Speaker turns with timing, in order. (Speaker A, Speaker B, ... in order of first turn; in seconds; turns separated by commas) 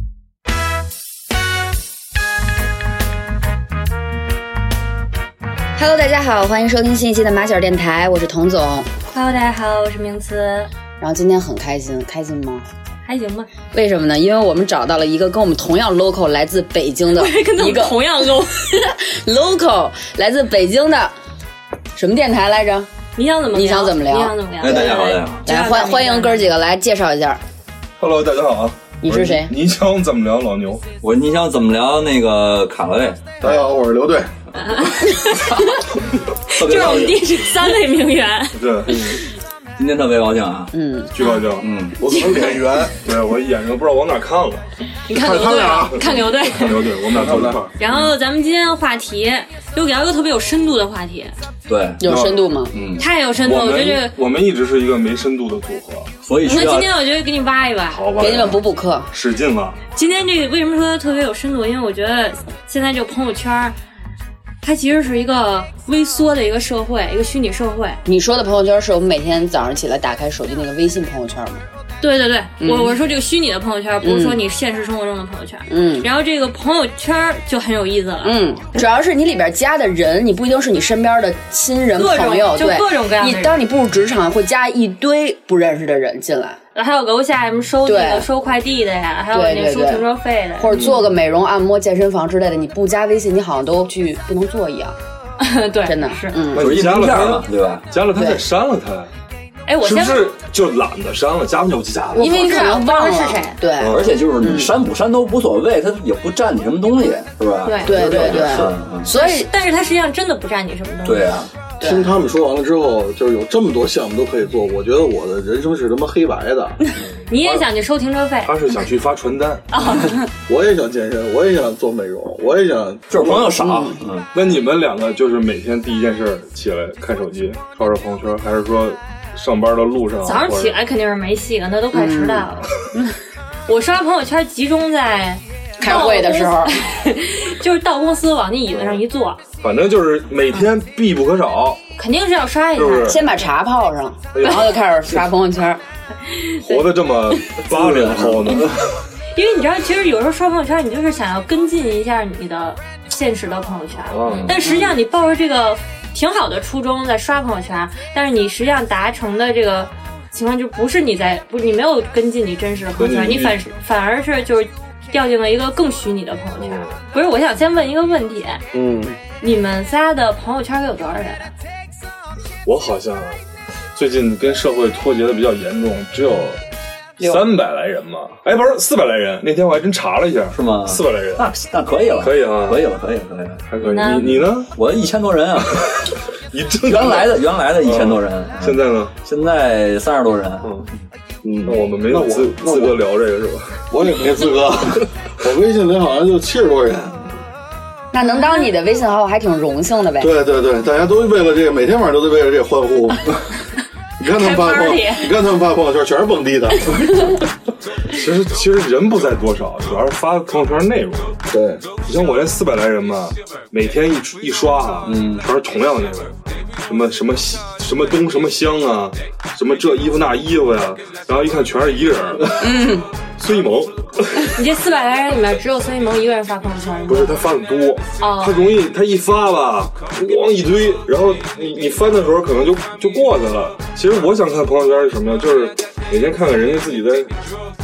Speaker A: 5.8-8.9, Speaker B: 9.1-10.7, Speaker A: 11.0-12.7, Speaker B: 13.0-13.5, Speaker A: 13.7-18.0, Speaker B: 17.1-18.9, Speaker A: 19.0-21.1, Speaker A: 21.9-22.9, Speaker B: 23.1-26.5, Speaker A: 23.5-24.9, Speaker C: 24.6-25.4, Speaker A: 25.4-27.4, Speaker D: 28.0-30.8, Speaker A: 29.0-29.5, Speaker C: 31.0-33.2, Speaker E: 33.4-34.3, Speaker B: 34.5-35.8, Speaker B: 36.5-39.2, Speaker C: 36.6-37.3, Speaker D: 38.5-39.2, Speaker C: 39.8-40.7, Speaker A: 40.7-41.1, Speaker D: 41.1-41.7, Speaker B: 41.2-41.5, Speaker C: 41.6-42.0, Speaker E: 42.0-43.0, Speaker D: 42.5-44.6, Speaker B: 45.1-47.0, Speaker E: 45.1-46.0, Speaker D: 46.4-47.6, Speaker E: 47.0-47.7, Speaker B: 47.8-51.3, Speaker C: 51.7-52.0, Speaker A: 52.0-52.7, Speaker D: 52.0-52.4, Speaker C: 52.7-53.0, Speaker B: 53.0-54.1, Speaker D: 53.4-56.1, Speaker C: 56.2-56.9, Speaker B: 56.5-58.1, Speaker D: 57.9-59.8, Speaker A: 58.1-59.1, Speaker B: 60.0-63.8, Speaker B: 64.6-68.0, Speaker A: 68.0-71.6, Speaker B: 72.0-78.3, Speaker A: 72.6-73.0, Speaker A: 74.0-74.4, Speaker A: 75.7-76.1, Speaker A: 78.2-86.6, Speaker B: 82.0-83.6, Speaker B: 86.7-90.8, Speaker A: 87.8-88.3, Speaker A: 89.3-90.1, Speaker A: 90.6-95.0, Speaker D: 90.7-91.1, Speaker B: 95.4-96.4, Speaker A: 95.8-96.7, Speaker D: 96.5-99.1, Speaker C: 96.5-97.8, Speaker A: 98.1-98.4, Speaker B: 99.7-100.3, Speaker D: 99.8-102.3, Speaker A: 102.1-104.7, Speaker B: 102.2-103.6, Speaker D: 103.8-104.1, Speaker C: 103.8-109.1, Speaker B: 107.6-108.0, Speaker A: 107.8-109.5, Speaker B: 109.1-111.4, Speaker C: 111.0-111.5, Speaker A: 111.8-112.2, Speaker E: 111.8-116.8, Speaker B: 117.3-118.6, Speaker D: 117.3-117.7, Speaker D: 118.4-119.7, Speaker B: 119.7-120.3, Speaker E: 120.5-123.6, Speaker C: 123.1-124.3, Speaker A: 123.6-124.0, Speaker D: 124.3-130.8, Speaker B: 130.2-132.7, Speaker A: 131.9-133.1, Speaker B: 133.7-139.4, Speaker A: 135.8-136.8, Speaker D: 138.7-139.0, Speaker D: 139.6-141.8, Speaker B: 141.9-143.2, Speaker D: 142.8-143.3, Speaker A: 143.0-145.8, Speaker D: 144.3-144.8, Speaker B: 146.2-146.9, Speaker D: 146.6-149.0, Speaker E: 147.7-148.2, Speaker B: 149.3-168.6, Speaker D: 154.1-154.6, Speaker C: 154.3-154.5, Speaker A: 154.7-154.9, Speaker D: 163.0-163.6, Speaker D: 166.6-166.9, Speaker D: 168.7-169.2, Speaker B: 169.4-171.5, Speaker D: 172.6-173.4, Speaker D: 173.9-176.6, Speaker D: 177.2-181.4, Speaker C: 180.5-185.8, Speaker D: 182.2-182.8, Speaker D: 183.7-184.7, Speaker B: 183.8-184.3, Speaker D: 186.5-189.1, Speaker C: 186.8-190.7, Speaker D: 190.6-190.9, Speaker E: 191.4-193.0, Speaker D: 191.7-193.8, Speaker E: 193.9-197.2, Speaker A: 198.1-200.4, Speaker B: 198.2-198.7, Speaker E: 200.2-203.4, Speaker E: 204.2-207.1, Speaker B: 204.3-205.3, Speaker D: 208.1-211.3, Speaker E: 211.5-211.8, Speaker D: 212.0-216.3, Speaker C: 215.0-215.4, Speaker D: 216.8-222.7, Speaker A: 222.6-223.1, Speaker D: 223.3-224.5, Speaker B: 224.4-227.3, Speaker D: 227.1-237.3, Speaker B: 228.2-228.6